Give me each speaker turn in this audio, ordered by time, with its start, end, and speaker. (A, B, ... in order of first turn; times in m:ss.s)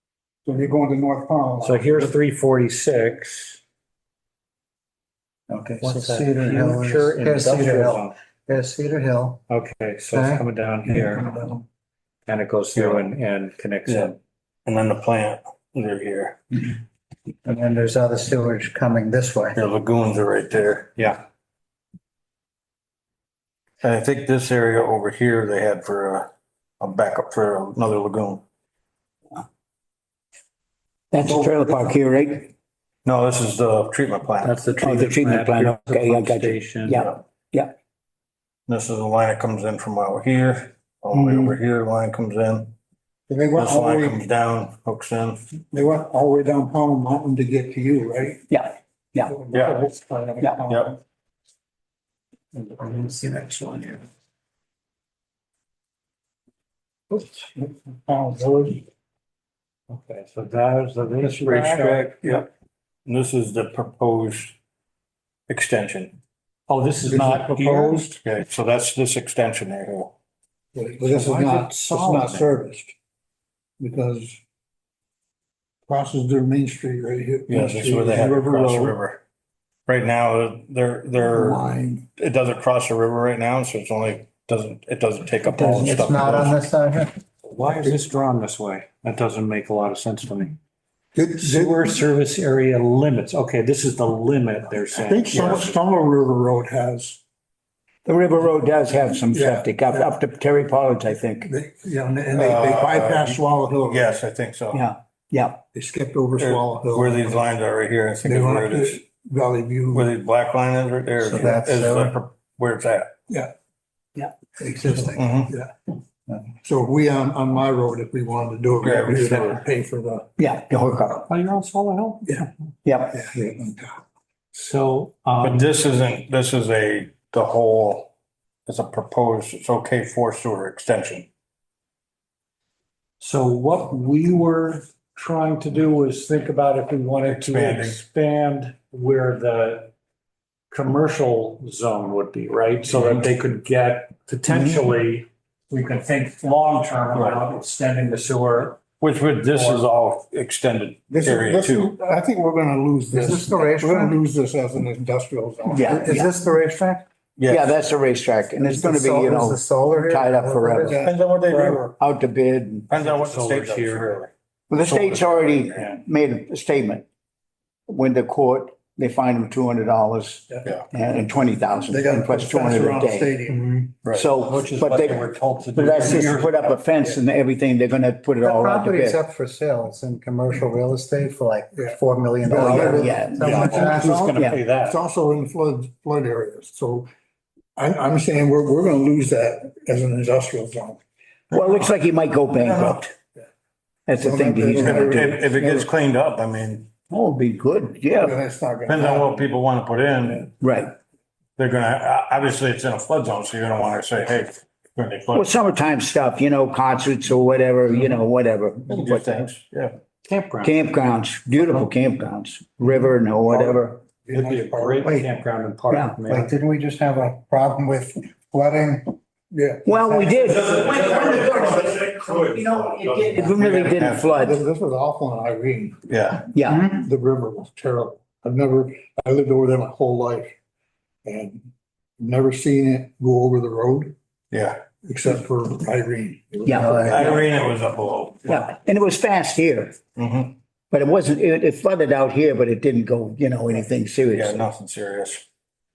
0:00.4-0:02.1 A
0:01.6-0:03.6 B
0:05.5-0:09.4 C
0:05.8-0:08.1 B
0:09.5-0:11.6 B
0:10.1-0:11.4 C
0:12.2-0:14.2 B
0:12.8-0:13.1 D
0:14.6-0:16.7 D
0:17.4-0:19.6 C
0:19.5-0:21.0 D
0:23.8-0:28.4 D
0:31.1-0:32.5 E
0:33.0-0:34.6 D
0:34.4-0:37.1 B
0:34.8-0:37.7 E
0:38.7-0:42.7 D
0:43.3-0:44.2 A
0:43.6-0:45.4 D
0:45.7-0:48.4 A
0:48.5-0:49.3 E
0:49.2-0:51.0 A
0:49.5-0:49.8 D
0:50.7-0:51.0 D
0:57.1-0:58.8 A
0:59.9-1:02.3 B
1:01.3-1:02.0 C
1:02.2-1:02.5 D
1:03.0-1:04.6 D
1:05.5-1:06.2 D
1:06.7-1:08.1 B
1:07.0-1:08.2 A
1:08.2-1:10.1 D
1:10.7-1:12.9 A
1:11.0-1:12.4 B
1:13.8-1:14.4 A
1:15.9-1:19.0 A
1:17.5-1:19.2 D
1:19.9-1:21.6 D
1:21.2-1:22.1 A
1:22.2-1:26.6 D
1:25.5-1:27.2 C
1:27.4-1:30.6 B
1:27.7-1:28.0 A
1:31.1-1:32.0 A
1:31.4-1:35.8 B
1:34.9-1:37.2 A
1:38.0-1:41.5 E
1:39.3-1:40.1 A
1:41.4-1:44.2 A
1:42.3-1:44.8 D
1:44.7-1:45.6 E
1:45.7-1:47.4 A
1:46.4-1:49.0 D
1:48.2-1:50.1 A
1:49.9-1:53.1 D
1:51.2-1:52.1 C
1:54.6-1:55.2 C
1:54.6-1:55.7 A
1:55.2-1:55.5 D
1:56.5-2:00.3 A
1:58.8-1:59.6 D
2:00.4-2:01.3 E
2:01.3-2:02.5 B
2:02.8-2:03.2 E
2:03.1-2:04.0 A
2:04.5-2:05.6 B
2:05.4-2:08.1 D
2:08.6-2:11.3 D
2:13.2-2:19.9 B
2:17.2-2:18.0 D
2:20.7-2:28.8 B
2:22.9-2:23.2 D
2:27.1-2:27.4 D
2:29.0-2:31.9 D
2:29.5-2:29.8 B
2:31.1-2:36.0 A
2:33.1-2:34.2 C
2:35.7-2:36.3 E
2:35.8-2:37.0 C
2:37.4-2:37.7 D
2:37.5-2:41.0 E
2:38.6-2:41.0 C
2:40.8-2:41.9 A
2:41.0-2:41.9 D
2:42.0-2:42.9 E
2:42.9-2:44.3 D
2:42.9-2:44.2 B
2:44.7-2:47.1 E
2:47.9-2:53.4 E
2:51.9-2:54.0 A
2:54.0-2:54.3 D
2:54.1-2:59.2 E
2:54.2-2:56.7 B
2:58.4-3:04.3 C
3:01.7-3:07.1 A
3:02.5-3:04.6 E
3:03.5-3:05.0 B
3:07.8-3:11.0 A
3:11.5-3:13.2 E
3:14.1-3:15.4 E
3:14.2-3:15.9 A
3:14.8-3:16.9 D
3:17.1-3:18.4 E
3:18.1-3:19.4 A
3:18.9-3:20.5 D
3:20.6-3:20.9 E
3:21.6-3:25.5 D
3:25.3-3:29.5 E
3:28.9-3:29.9 D
3:30.2-3:30.7 B
3:30.6-3:34.0 E
3:33.5-3:35.1 A
3:34.3-3:36.5 B
3:35.0-3:35.3 C
3:35.9-3:36.2 E
3:36.2-3:39.2 C
3:39.5-3:40.1 A
3:39.8-3:44.6 E
3:40.4-3:44.3 D
3:44.3-3:46.0 A
3:46.1-3:46.5 D
3:46.5-3:46.9 E
3:46.8-3:50.5 A
3:51.2-3:51.6 A
3:52.2-3:54.1 A
3:54.5-3:54.8 D
3:55.0-3:57.4 A
3:56.6-3:57.2 E
3:56.7-3:57.3 C
3:57.0-3:58.7 D
3:58.5-4:00.0 E
4:00.2-4:00.5 D
4:00.9-4:04.6 E
4:04.3-4:05.4 D